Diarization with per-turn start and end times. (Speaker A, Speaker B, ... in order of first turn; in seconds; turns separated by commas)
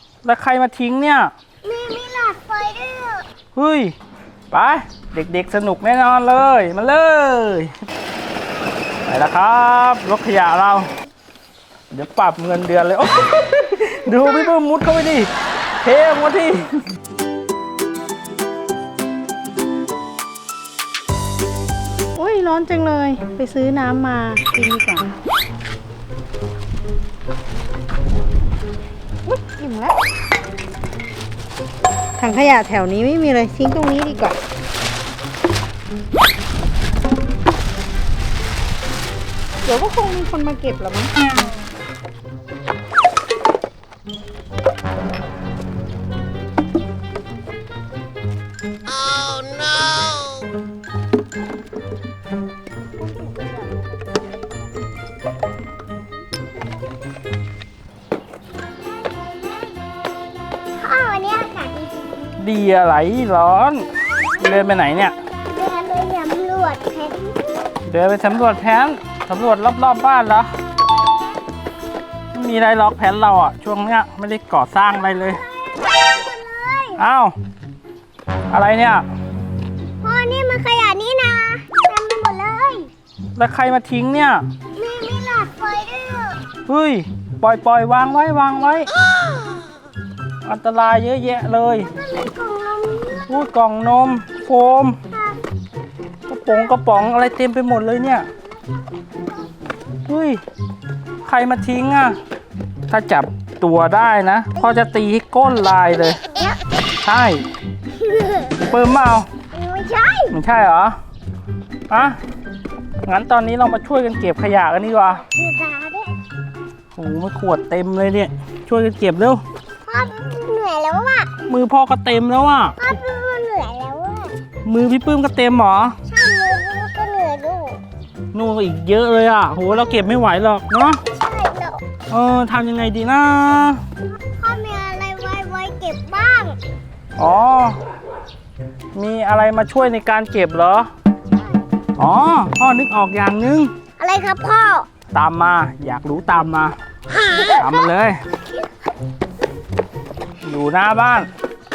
Speaker A: 0.2-1.3, Speaker B: 1.6-3.2, Speaker A: 3.5-3.9, Speaker A: 4.5-7.7, Speaker A: 9.1-10.9, Speaker A: 11.9-15.3, Speaker A: 15.8-16.8, Speaker C: 22.2-25.2, Speaker C: 29.3-30.0, Speaker C: 32.2-34.4, Speaker C: 39.6-41.1, Speaker B: 53.3-53.6, Speaker B: 60.8-62.3, Speaker A: 62.4-65.2, Speaker B: 65.5-67.7, Speaker A: 67.8-70.5, Speaker A: 72.3-75.4, Speaker B: 75.3-77.0, Speaker A: 77.0-77.3, Speaker A: 78.5-79.0, Speaker B: 80.0-82.9, Speaker A: 83.4-84.5, Speaker B: 84.8-86.4, Speaker A: 86.7-88.9, Speaker B: 88.9-89.7, Speaker A: 90.4-91.9, Speaker B: 92.0-93.4, Speaker A: 93.3-95.0, Speaker A: 96.3-98.3, Speaker A: 100.1-100.4, Speaker A: 101.2-102.2, Speaker A: 102.9-106.2, Speaker B: 106.3-106.6, Speaker A: 107.0-107.4, Speaker B: 107.9-108.5, Speaker A: 108.6-109.3, Speaker B: 109.5-110.4, Speaker A: 110.3-111.0, Speaker A: 111.9-112.2, Speaker A: 113.1-115.2, Speaker B: 115.0-116.2, Speaker A: 117.0-119.4, Speaker B: 119.9-121.4, Speaker A: 121.5-123.0, Speaker B: 122.8-124.4, Speaker A: 124.6-126.0, Speaker B: 126.1-127.8, Speaker A: 128.3-131.0, Speaker B: 131.1-131.8, Speaker A: 132.1-133.8, Speaker B: 134.4-136.6, Speaker A: 137.2-137.8, Speaker A: 138.9-140.9, Speaker A: 142.0-143.7, Speaker B: 144.0-144.9, Speaker A: 145.1-146.8, Speaker B: 147.1-147.8, Speaker A: 147.6-148.2, Speaker A: 150.4-151.3